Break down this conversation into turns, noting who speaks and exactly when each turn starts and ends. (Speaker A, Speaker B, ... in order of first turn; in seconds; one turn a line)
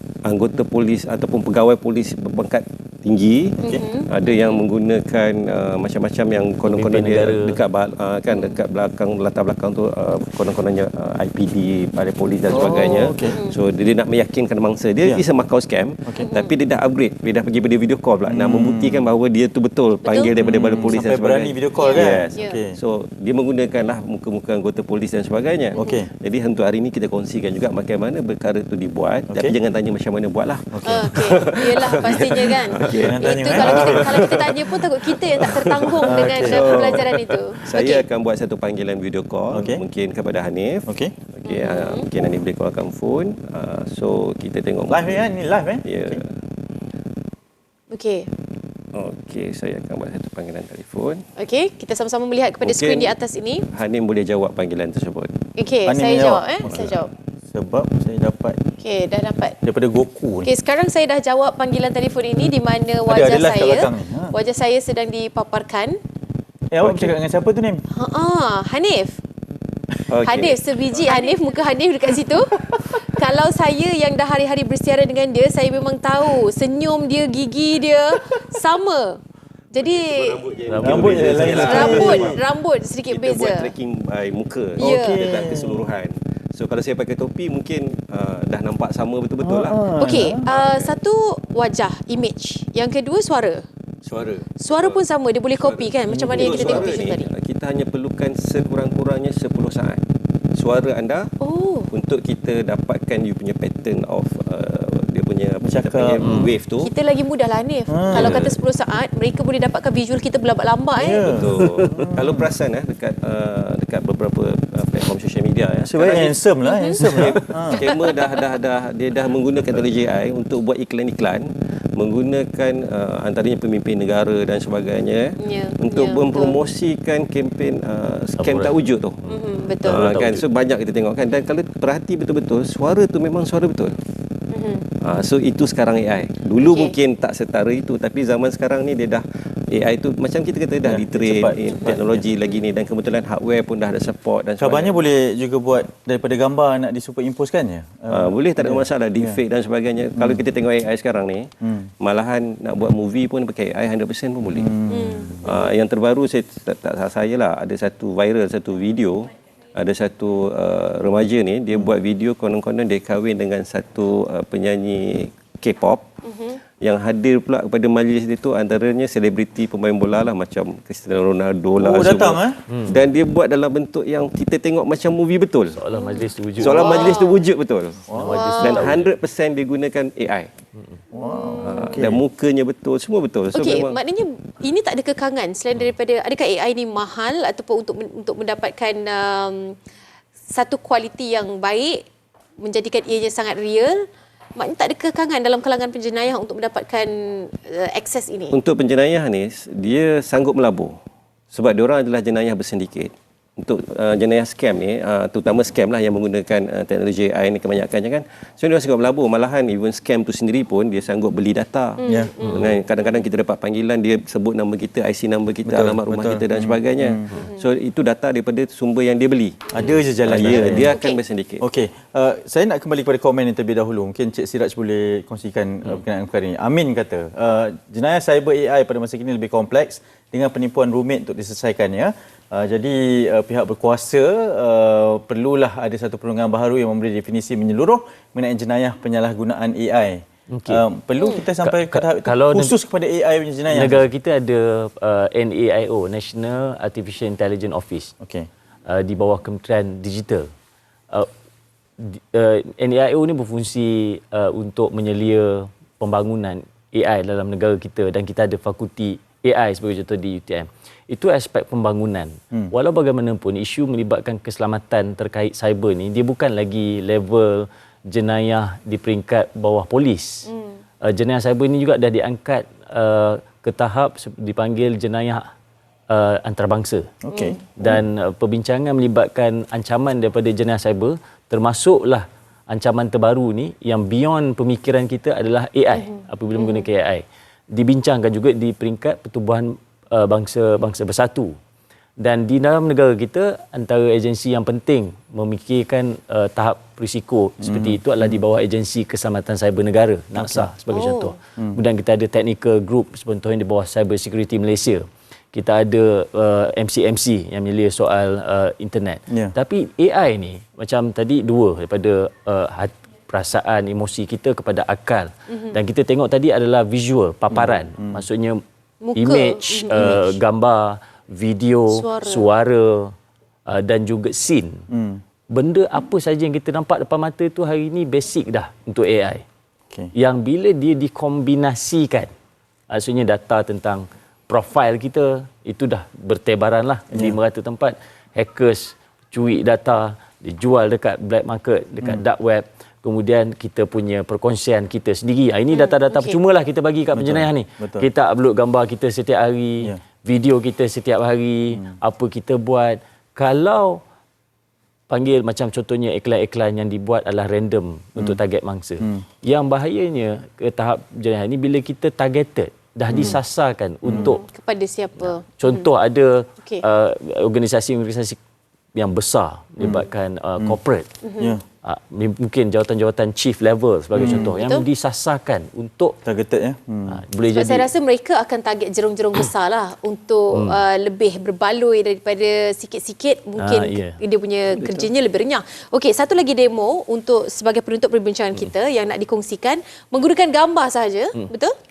Speaker A: 0.2-45.3
Speaker B: 3.6-3.8
Speaker C: 3.6-4.4
Speaker D: 6.7-7.6
Speaker C: 8.3-8.6
Speaker B: 12.5-13.3
Speaker C: 12.5-13.6
Speaker C: 16.1-16.5
Speaker B: 18.3-19.1
Speaker C: 20.0-20.3
Speaker B: 20.4-22.8
Speaker C: 21.8-22.6
Speaker B: 25.7-26.1
Speaker C: 25.7-26.0
Speaker B: 29.3-29.5
Speaker B: 30.7-31.4
Speaker C: 30.9-38.0
Speaker B: 32.8-34.3
Speaker B: 36.0-36.9
Speaker B: 39.5-39.8
Speaker B: 40.9-41.1
Speaker C: 41.5-42.1
Speaker B: 44.9-46.2
Speaker A: 45.8-46.3
Speaker C: 47.9-48.3
Speaker A: 48.9-51.2
Speaker C: 51.4-53.7
Speaker A: 52.6-53.1
Speaker A: 53.7-55.3
Speaker C: 55.5-57.1
Speaker B: 55.9-56.9
Speaker A: 56.6-56.9
Speaker B: 57.5-58.6
Speaker C: 58.8-59.6
Speaker B: 59.6-60.5
Speaker C: 60.4-66.0
Speaker B: 63.0-64.3
Speaker B: 66.7-67.8
Speaker A: 66.8-67.1
Speaker C: 67.9-69.2
Speaker A: 70.1-71.4
Speaker C: 70.2-79.2
Speaker C: 79.7-80.4
Speaker A: 79.8-82.5
Speaker D: 80.7-82.1
Speaker B: 80.8-82.4
Speaker C: 81.5-83.7
Speaker A: 83.1-89.9
Speaker C: 84.8-85.2
Speaker B: 84.8-85.9
Speaker B: 89.4-90.4
Speaker C: 90.0-93.6
Speaker A: 90.5-91.0
Speaker A: 94.0-101.3
Speaker C: 94.6-97.3
Speaker B: 96.1-96.8
Speaker C: 101.4-101.9
Speaker A: 101.9-106.9
Speaker B: 105.6-106.4
Speaker D: 106.2-106.5
Speaker C: 106.8-111.3
Speaker B: 107.9-108.3
Speaker A: 108.1-108.6
Speaker B: 111.0-112.5
Speaker A: 111.2-116.4
Speaker D: 111.7-111.9
Speaker B: 115.9-117.9
Speaker C: 116.6-117.9
Speaker A: 117.0-129.2
Speaker C: 125.4-126.6
Speaker D: 128.4-130.4
Speaker C: 129.3-130.0
Speaker A: 129.8-133.9
Speaker C: 134.5-134.9
Speaker A: 135.0-145.0
Speaker C: 136.6-136.9
Speaker B: 140.8-142.2
Speaker B: 144.6-149.4
Speaker A: 148.1-151.5
Speaker B: 150.2-150.4
Speaker B: 151.6-151.9
Speaker A: 152.0-154.7
Speaker B: 154.5-155.4
Speaker C: 154.9-155.7
Speaker A: 155.4-166.0
Speaker C: 166.2-166.6
Speaker A: 166.8-175.8
Speaker B: 171.8-172.6
Speaker D: 172.7-173.0
Speaker D: 175.7-177.2
Speaker C: 175.9-177.4
Speaker A: 176.6-180.5
Speaker B: 178.1-178.9
Speaker D: 178.1-179.1
Speaker C: 178.2-178.9
Speaker C: 181.1-182.0
Speaker B: 181.1-182.2
Speaker A: 181.6-183.9
Speaker C: 183.5-189.8
Speaker C: 190.5-192.0
Speaker C: 192.6-194.0
Speaker C: 194.6-198.6
Speaker A: 198.5-200.9
Speaker A: 201.5-221.7
Speaker C: 212.0-213.3
Speaker B: 212.1-212.3
Speaker D: 212.4-212.7
Speaker B: 215.6-217.3
Speaker B: 219.7-220.9
Speaker C: 219.7-221.2
Speaker B: 221.6-244.1
Speaker D: 240.5-240.8
Speaker C: 241.2-241.4
Speaker D: 241.6-242.8
Speaker D: 243.7-248.1
Speaker B: 248.2-248.5
Speaker D: 248.8-250.5
Speaker D: 252.0-270.5
Speaker C: 270.5-270.8
Speaker D: 271.0-275.5
Speaker D: 276.1-277.1
Speaker B: 277.2-278.0
Speaker C: 277.3-277.6
Speaker D: 277.8-291.5
Speaker C: 285.9-286.9
Speaker D: 292.2-318.6
Speaker B: 297.6-298.4
Speaker B: 300.3-300.7
Speaker C: 300.9-301.3
Speaker B: 309.3-309.5
Speaker B: 317.5-318.2
Speaker C: 319.0-320.2
Speaker D: 319.1-323.1
Speaker B: 319.9-320.3
Speaker C: 321.9-322.5
Speaker D: 323.6-324.8
Speaker B: 324.9-325.2
Speaker D: 325.5-329.4
Speaker D: 330.1-332.3
Speaker D: 332.9-354.0
Speaker B: 337.1-337.4
Speaker C: 345.7-346.4
Speaker B: 347.1-348.1
Speaker B: 351.7-352.0
Speaker D: 355.1-364.4
Speaker B: 359.0-359.2
Speaker B: 363.1-363.4
Speaker B: 364.0-364.4
Speaker C: 364.1-365.9
Speaker D: 365.2-368.4
Speaker D: 368.9-371.1
Speaker B: 369.8-370.0
Speaker C: 371.2-371.6
Speaker B: 371.4-371.6
Speaker D: 371.8-376.2
Speaker B: 374.1-374.6
Speaker C: 374.2-374.8
Speaker B: 376.2-377.2
Speaker D: 377.1-377.9
Speaker C: 377.5-391.7
Speaker D: 383.6-384.2
Speaker A: 384.7-385.1